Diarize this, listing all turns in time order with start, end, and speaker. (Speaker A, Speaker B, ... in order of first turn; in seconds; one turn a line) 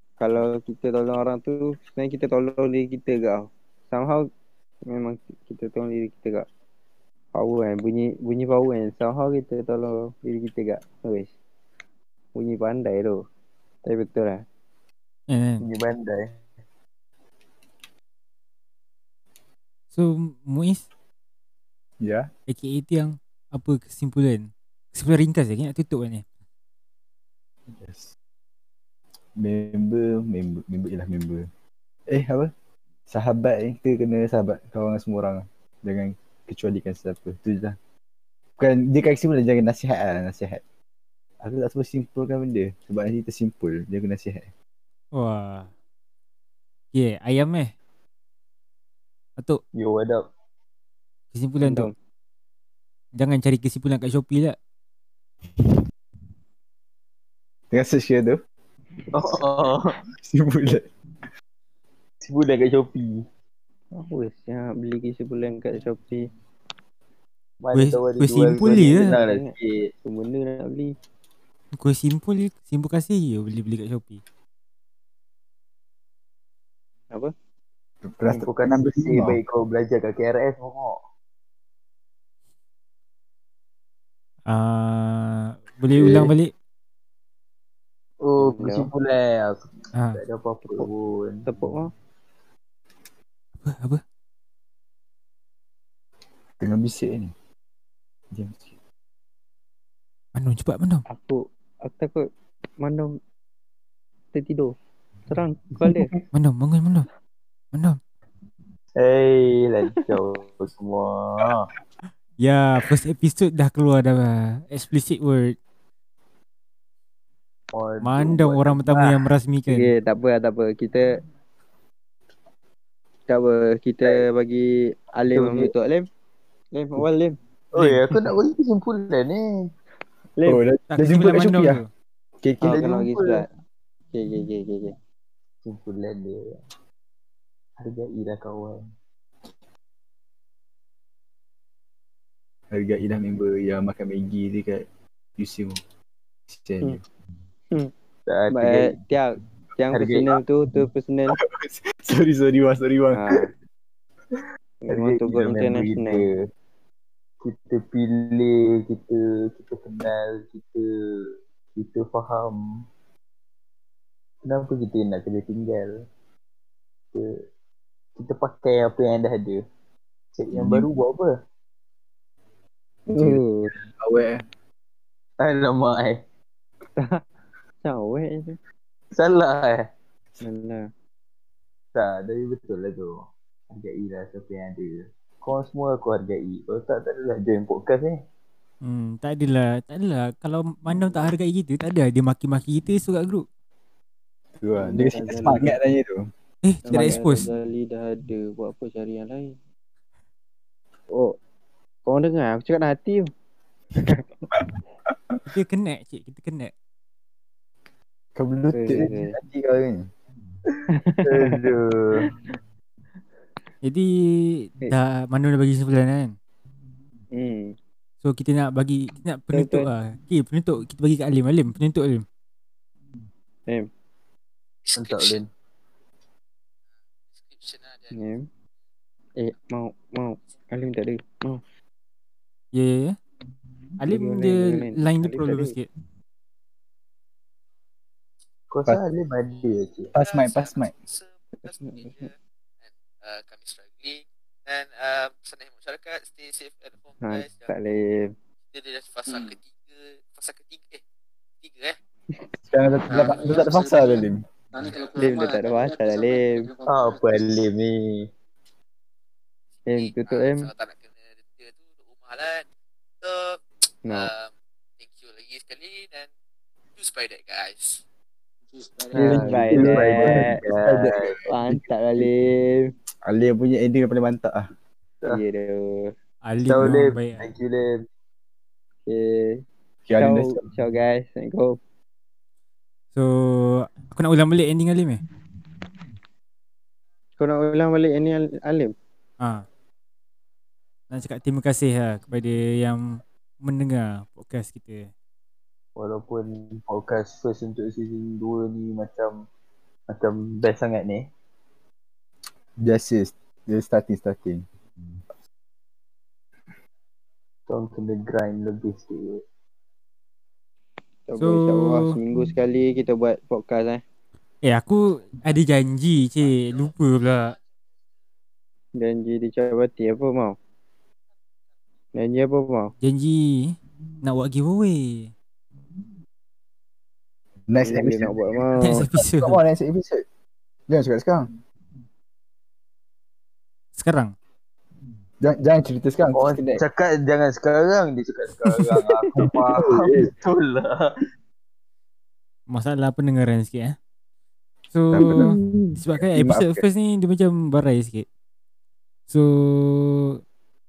Speaker A: 0.2-4.2
Speaker A: 4.9-6.5
Speaker A: 7.3-11.3
Speaker A: 12.3-13.2
Speaker A: 13.8-14.4
Speaker B: 15.3-15.7
Speaker C: 15.6-16.3
Speaker B: 19.9-20.8
Speaker D: 22.0-22.3
Speaker B: 22.5-26.2
Speaker D: 27.7-28.1
Speaker D: 29.4-31.5
Speaker D: 32.1-32.5
Speaker D: 33.1-37.8
Speaker D: 38.6-40.6
Speaker D: 41.4-44.5
Speaker B: 45.1-45.7
Speaker B: 46.9-47.7
Speaker C: 49.8-50.3
Speaker B: 51.3-51.9
Speaker A: 51.6-51.9
Speaker B: 53.2-54.6
Speaker D: 57.7-58.4
Speaker C: 59.1-60.0
Speaker D: 60.2-60.9
Speaker C: 62.2-63.2
Speaker A: 63.9-66.2
Speaker C: 67.6-69.9
Speaker B: 67.7-69.1
Speaker A: 68.6-70.9
Speaker B: 71.8-74.2
Speaker D: 78.0-79.4
Speaker C: 78.3-81.0
Speaker B: 84.5-86.5
Speaker C: 86.0-86.3
Speaker C: 88.2-89.6
Speaker A: 88.4-88.9
Speaker B: 90.0-90.2
Speaker C: 90.2-91.4
Speaker A: 91.5-91.9
Speaker B: 93.6-94.0
Speaker D: 96.6-97.3
Speaker D: 98.3-98.7
Speaker B: 100.3-101.0
Speaker A: 101.1-102.3
Speaker A: 102.8-103.1
Speaker A: 104.3-104.8
Speaker A: 105.3-106.1
Speaker C: 105.8-106.2
Speaker B: 106.3-107.1
Speaker C: 109.0-111.7
Speaker B: 112.4-115.6
Speaker C: 117.7-119.1
Speaker B: 118.0-119.9
Speaker A: 119.7-121.0
Speaker A: 123.3-126.1
Speaker C: 125.3-125.7
Speaker A: 126.7-127.4
Speaker C: 127.7-129.7
Speaker B: 127.8-128.0
Speaker D: 130.4-131.8
Speaker B: 130.9-131.9
Speaker D: 132.4-132.9
Speaker A: 132.6-133.5
Speaker C: 132.6-133.4
Speaker A: 134.1-134.9
Speaker C: 135.6-136.6
Speaker C: 137.8-138.8
Speaker D: 142.7-144.8
Speaker D: 145.4-145.8
Speaker D: 146.5-147.0
Speaker C: 148.3-148.9
Speaker A: 148.5-151.4
Speaker C: 149.9-150.3
Speaker D: 151.3-153.4
Speaker A: 153.2-153.5
Speaker A: 154.8-156.2
Speaker C: 154.9-156.5
Speaker C: 157.4-160.9
Speaker C: 161.8-162.8
Speaker C: 164.4-166.0
Speaker C: 168.2-169.7
Speaker C: 170.4-171.4
Speaker D: 170.5-170.9
Speaker A: 173.1-173.8
Speaker D: 173.2-174.4
Speaker C: 175.4-176.2
Speaker A: 177.8-178.6
Speaker C: 179.1-179.8
Speaker A: 180.4-180.8
Speaker C: 181.9-183.2
Speaker C: 183.7-188.2
Speaker B: 188.8-193.4
Speaker D: 194.6-196.3
Speaker A: 194.8-195.8
Speaker B: 196.6-197.4
Speaker A: 196.9-199.6
Speaker D: 196.9-197.2
Speaker A: 202.1-203.3
Speaker D: 204.6-205.4
Speaker B: 205.5-206.7
Speaker D: 208.4-210.1
Speaker A: 208.7-209.3
Speaker C: 210.7-212.3
Speaker A: 211.0-211.6
Speaker B: 213.8-216.3
Speaker A: 217.4-217.7
Speaker B: 218.2-222.2
Speaker A: 219.5-219.9
Speaker E: 224.8-225.4
Speaker C: 225.0-225.5
Speaker E: 227.4-228.2
Speaker A: 228.1-228.4
Speaker A: 229.4-231.6
Speaker B: 232.7-233.2
Speaker B: 234.0-235.9
Speaker A: 234.1-235.7
Speaker C: 238.7-240.1
Speaker D: 240.2-240.9
Speaker E: 240.2-242.3
Speaker A: 241.7-242.3
Speaker E: 242.8-247.7
Speaker A: 247.2-248.3
Speaker E: 248.7-251.0
Speaker C: 249.3-249.5
Speaker E: 251.6-252.0
Speaker D: 252.7-254.4
Speaker E: 253.1-254.2
Speaker E: 254.8-255.6
Speaker A: 255.2-256.7
Speaker C: 256.9-258.3
Speaker E: 259.8-262.6
Speaker A: 259.9-260.7
Speaker E: 263.2-266.3
Speaker E: 267.0-268.0
Speaker D: 269.1-271.8
Speaker C: 269.1-271.4
Speaker A: 269.2-270.6
Speaker A: 271.5-272.8
Speaker D: 273.3-274.7
Speaker A: 275.3-276.1
Speaker B: 276.4-277.4
Speaker C: 276.6-278.0
Speaker A: 279.1-279.6
Speaker D: 280.1-280.6
Speaker A: 280.2-281.8
Speaker B: 283.1-285.2
Speaker A: 287.4-288.9
Speaker B: 289.4-289.6
Speaker B: 291.1-295.1
Speaker C: 296.0-299.4
Speaker C: 300.1-301.3
Speaker D: 302.8-304.6
Speaker C: 307.7-309.4
Speaker A: 311.3-314.0
Speaker B: 311.4-312.1
Speaker B: 314.6-317.5
Speaker A: 319.0-320.6
Speaker A: 322.2-322.9
Speaker B: 323.0-325.3
Speaker D: 327.7-328.6
Speaker A: 327.8-329.0
Speaker B: 328.8-329.6
Speaker D: 329.1-330.2
Speaker D: 330.9-331.5
Speaker B: 334.0-334.3
Speaker D: 335.4-336.8
Speaker C: 336.3-341.1
Speaker A: 338.8-339.3
Speaker D: 339.4-340.3
Speaker B: 342.7-343.9
Speaker B: 344.9-348.3
Speaker D: 345.1-345.6
Speaker D: 346.1-346.8
Speaker B: 349.3-350.4